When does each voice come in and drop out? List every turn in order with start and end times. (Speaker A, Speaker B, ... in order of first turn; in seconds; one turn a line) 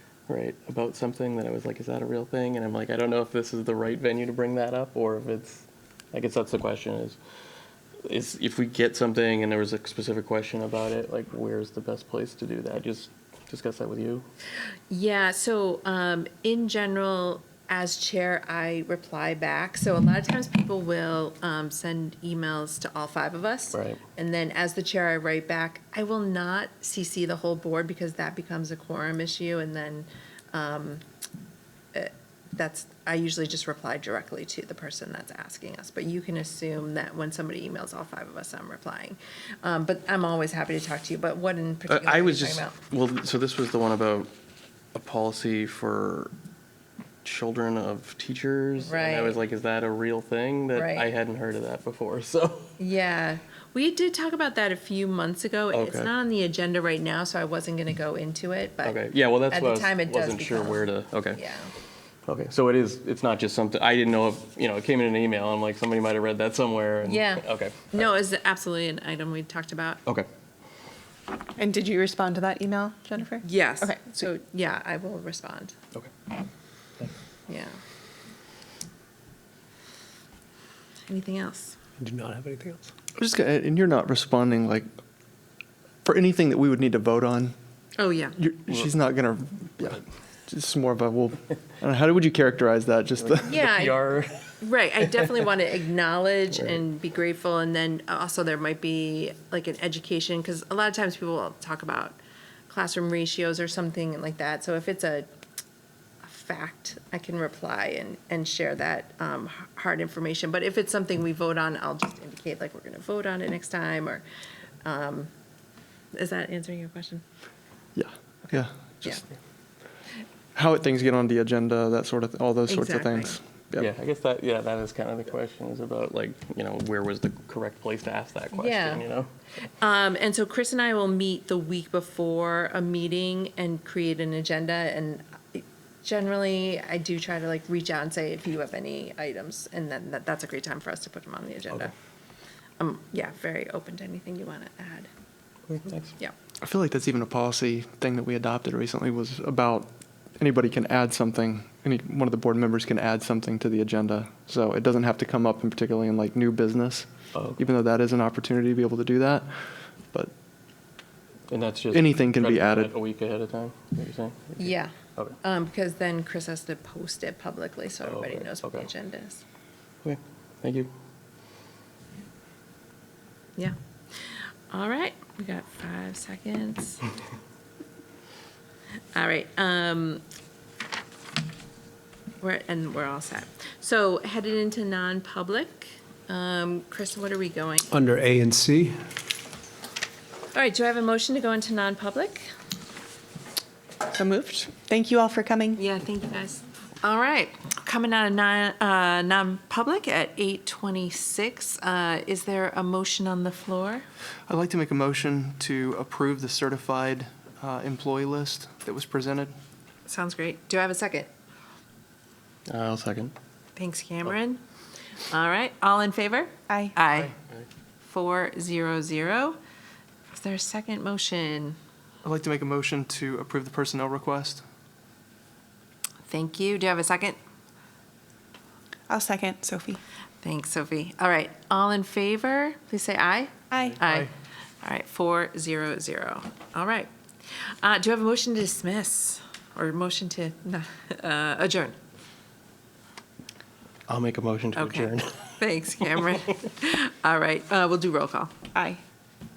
Speaker A: 0.3-7.2
Speaker A: 8.0-14.3
Speaker B: 14.9-31.0
Speaker A: 23.7-24.0
Speaker B: 31.9-42.8
Speaker A: 41.9-44.3
Speaker A: 44.9-46.3
Speaker A: 47.2-52.8
Speaker B: 48.8-49.4
Speaker B: 50.7-51.1
Speaker B: 52.8-61.7
Speaker A: 55.7-56.1
Speaker A: 58.8-61.4
Speaker A: 62.3-68.0
Speaker B: 67.0-70.0
Speaker C: 71.6-74.2
Speaker B: 73.4-75.7
Speaker B: 77.5-77.8
Speaker B: 81.1-81.8
Speaker D: 82.0-82.9
Speaker E: 83.2-84.9
Speaker E: 86.0-87.5
Speaker B: 88.0-88.4
Speaker E: 88.4-93.6
Speaker A: 93.2-94.5
Speaker B: 93.5-94.0
Speaker B: 94.6-102.2
Speaker B: 102.7-105.3
Speaker B: 106.2-114.2
Speaker B: 114.8-115.3
Speaker B: 116.1-117.2
Speaker E: 118.0-119.2
Speaker E: 120.5-123.9
Speaker B: 122.7-123.3
Speaker A: 123.8-129.3
Speaker B: 128.5-129.0
Speaker B: 129.8-141.9
Speaker B: 142.8-145.1
Speaker A: 145.7-146.1
Speaker E: 146.6-160.3
Speaker A: 157.3-157.6
Speaker A: 161.5-165.3
Speaker E: 161.9-162.9
Speaker B: 164.6-169.4
Speaker A: 168.1-168.9
Speaker A: 170.0-170.9
Speaker B: 174.3-177.0
Speaker B: 179.1-180.2
Speaker B: 182.4-187.9
Speaker D: 187.9-189.0
Speaker B: 190.5-192.4
Speaker C: 194.1-195.8
Speaker B: 195.8-204.0
Speaker E: 204.5-209.5
Speaker B: 210.1-211.3
Speaker A: 212.7-213.3
Speaker B: 213.8-214.6
Speaker B: 215.3-217.3
Speaker C: 216.7-216.9
Speaker B: 218.0-219.6
Speaker B: 220.3-221.8
Speaker E: 222.2-224.6
Speaker B: 226.3-227.4
Speaker C: 229.1-230.0
Speaker B: 230.4-234.3
Speaker C: 233.7-234.0
Speaker E: 234.0-234.3
Speaker B: 234.8-241.9
Speaker A: 244.1-245.5
Speaker B: 244.7-248.7
Speaker C: 248.7-249.0